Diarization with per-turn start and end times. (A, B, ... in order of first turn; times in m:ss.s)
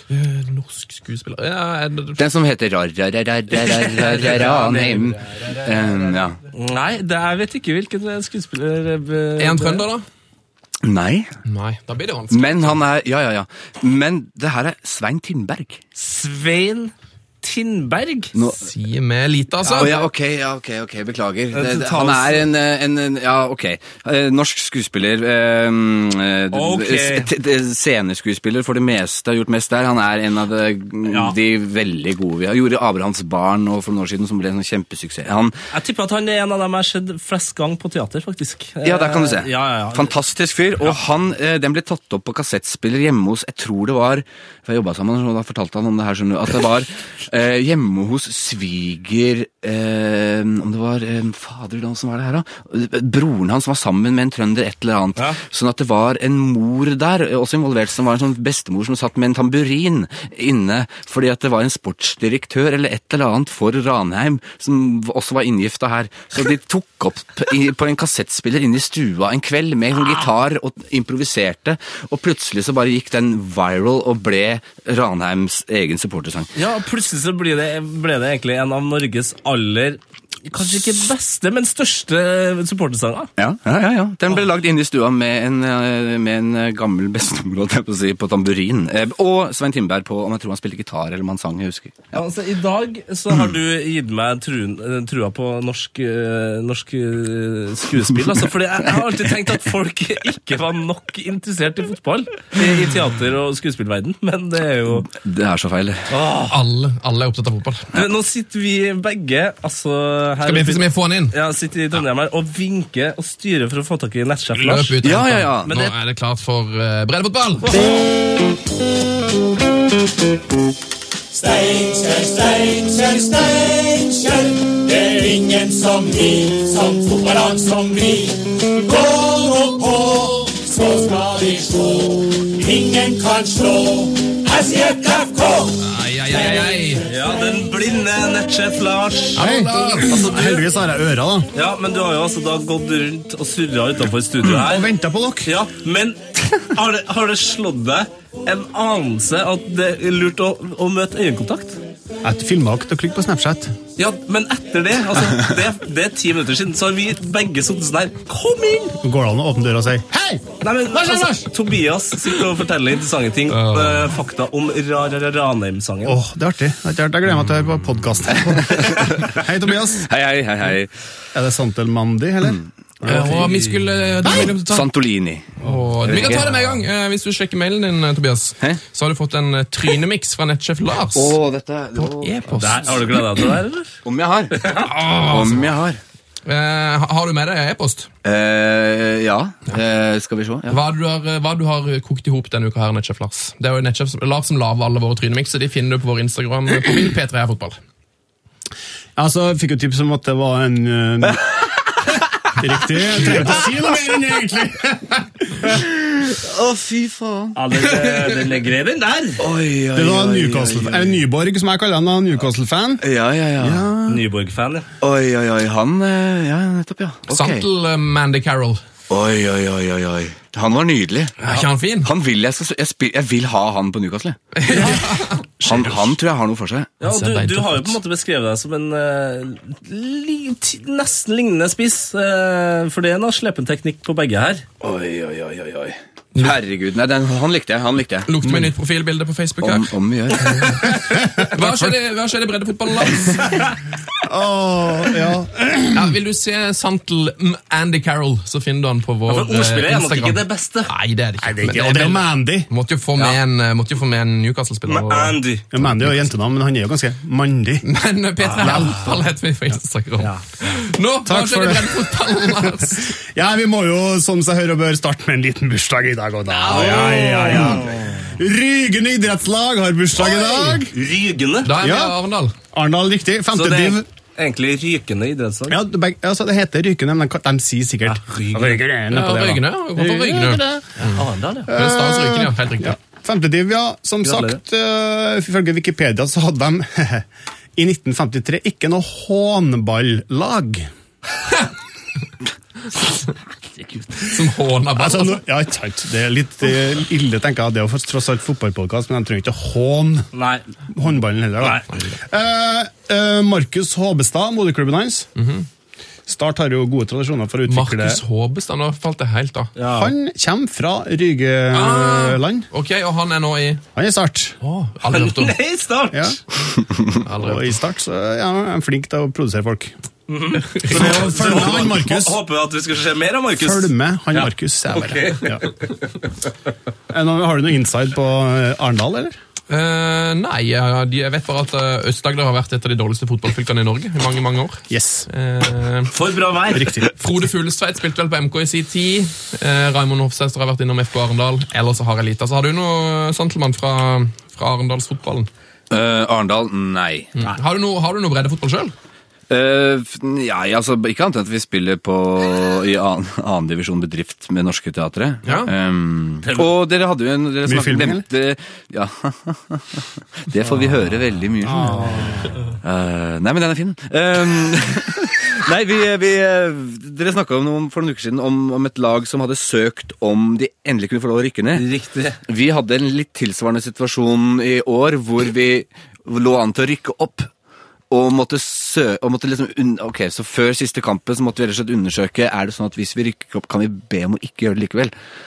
0:00.1-0:02.2 A
0:02.2-0:06.4 B
0:03.5-0:05.2 C
0:06.5-0:09.8 C
0:09.4-0:10.0 A
0:10.8-0:11.4 B
0:11.4-0:12.8 A
0:12.3-0:15.8 B
0:16.0-0:18.4 C
0:18.3-0:18.7 B
0:18.6-0:20.0 A
0:19.6-0:20.0 C
0:19.7-0:35.6 B
0:21.5-0:22.4 C
0:26.5-0:27.3 C
0:31.1-0:31.4 C
0:35.7-0:40.1 C
0:38.8-1:16.5 B
1:16.6-1:23.3 C
1:23.4-1:32.2 B
1:32.1-1:45.1 C
1:45.1-1:46.1 B
1:46.1-1:46.6 C
1:46.5-1:47.9 A
1:47.9-1:55.1 C
1:50.4-1:51.3 A
1:54.6-1:57.8 A
1:55.0-1:55.7 B
1:55.6-1:55.9 C
2:01.3-2:17.5 D
2:15.8-2:17.1 A
2:17.1-2:19.5 C
2:19.4-2:20.2 A
2:19.4-2:21.5 E
2:20.1-2:20.6 C
2:21.5-2:24.9 C
2:24.5-2:25.5 E
2:25.4-2:31.8 C
2:32.2-2:33.7 E
2:34.0-2:39.0 C
2:39.0-2:41.5 E
2:40.6-2:46.2 C
2:43.5-2:44.1 A
2:46.0-2:50.1 E
2:48.4-2:49.4 B
2:50.0-2:50.9 B
2:51.3-2:53.5 E
2:53.0-2:54.9 A
2:53.2-2:53.6 C
2:54.2-2:56.5 B
2:55.6-3:01.4 A
3:01.1-3:03.2 B
3:02.0-3:02.9 A
3:02.6-3:04.0 C
3:04.0-3:06.0 B
3:04.5-3:04.9 C
3:04.7-3:05.7 A
3:06.4-3:08.1 A
3:08.2-3:10.8 B
3:10.7-3:17.8 A
3:19.2-3:21.4 E
3:22.6-3:25.8 E
3:26.2-3:27.6 B
3:27.5-3:29.4 C
3:29.4-3:31.2 B
3:29.9-3:33.0 E
3:33.0-3:33.9 B
3:33.6-3:34.1 E
3:34.1-3:34.9 C
3:35.0-3:37.6 B
3:37.3-3:38.8 A
3:39.1-3:44.9 B
3:41.4-3:42.1 A
3:44.5-3:46.1 A
3:45.6-3:46.9 B
3:47.0-3:54.6 C
3:47.0-3:48.0 A
3:54.8-3:58.4 B
3:58.3-3:59.9 A
3:59.6-4:00.9 B
4:00.6-4:03.6 A
4:04.2-4:06.1 E
4:05.9-4:16.3 A
4:09.3-4:10.9 C
4:11.4-4:12.7 E
4:14.8-4:15.6 C
4:15.7-4:17.8 E
4:17.8-4:23.1 A
4:18.6-4:18.9 C
4:18.6-4:19.1 E
4:21.2-4:22.7 E
4:23.3-4:30.9 E
4:26.5-4:27.8 A
4:26.7-4:28.1 C
4:30.6-4:31.7 C
4:31.6-4:32.5 A
4:31.8-4:32.2 E
4:32.7-4:34.0 E
4:33.5-4:35.8 C
4:35.7-4:41.1 E
4:38.0-4:38.8 C
4:39.1-4:43.0 A
4:41.1-4:41.7 C
4:41.7-4:50.9 E
4:44.2-4:44.6 C
4:54.2-4:55.4 A
4:55.0-5:00.3 E
5:00.3-5:00.6 C
5:01.0-5:05.3 E
5:01.6-5:01.8 C
5:05.4-5:05.7 A
5:06.3-5:08.2 E
5:07.7-5:09.7 A
5:09.8-5:10.1 C
5:09.9-5:12.7 E
5:11.7-5:13.8 A
5:14.0-5:14.6 E
5:14.6-5:15.6 A
5:15.1-5:16.4 C
5:16.1-5:16.4 E
5:17.0-5:19.9 E
5:17.2-5:17.7 A
5:20.3-5:25.9 C
5:20.7-5:21.3 A
5:20.8-5:22.4 E
5:23.5-5:25.6 E
5:27.1-5:29.4 E
5:29.7-5:36.1 A
5:34.9-5:35.3 E
5:36.1-5:37.0 C
5:36.7-5:37.1 E
5:37.1-5:45.5 A
5:45.9-5:47.3 B
5:47.4-5:48.9 A
5:49.5-6:02.1 B
5:55.4-5:55.7 A
5:56.4-5:56.7 C
5:57.6-5:58.2 E
6:01.6-6:02.4 E
6:02.8-6:11.8 B
6:11.7-6:12.4 C
6:12.4-6:17.5 B
6:18.1-6:25.1 B